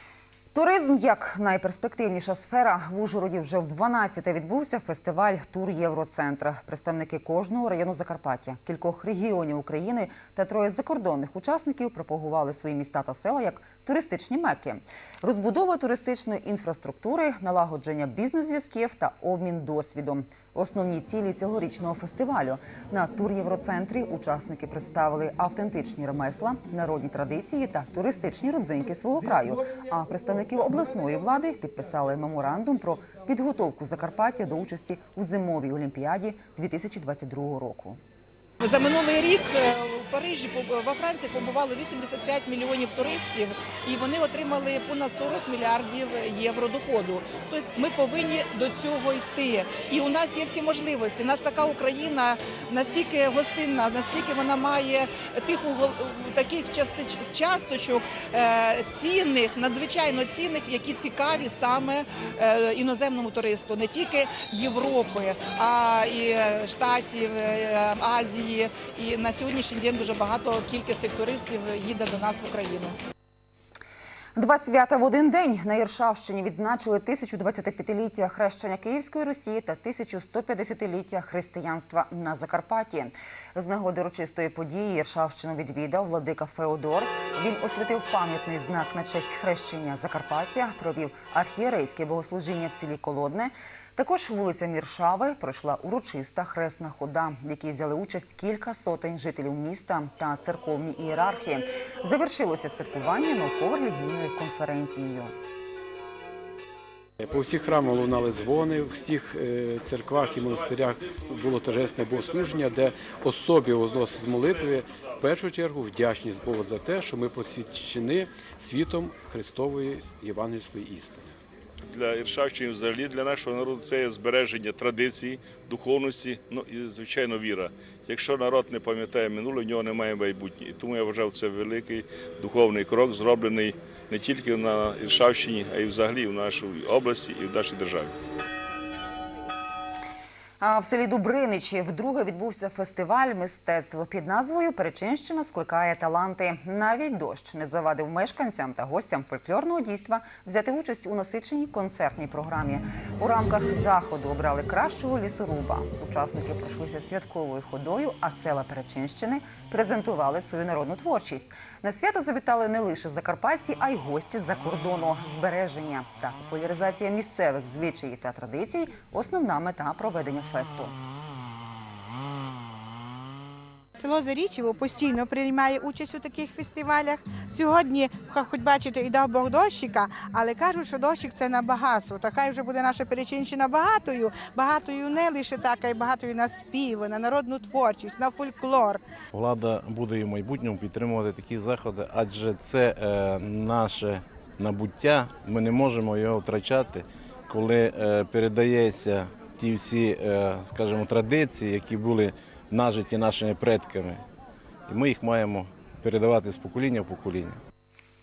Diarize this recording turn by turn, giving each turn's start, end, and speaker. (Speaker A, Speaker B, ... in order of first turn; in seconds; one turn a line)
Speaker A: 0.5-38.0
Speaker B: 38.6-73.0
Speaker A: 74.4-105.3
Speaker C: 107.2-121.3
Speaker D: 121.9-138.1
Speaker A: 140.6-170.9
Speaker E: 174.0-189.0
Speaker F: 189.3-204.2
Speaker F: 204.9-207.6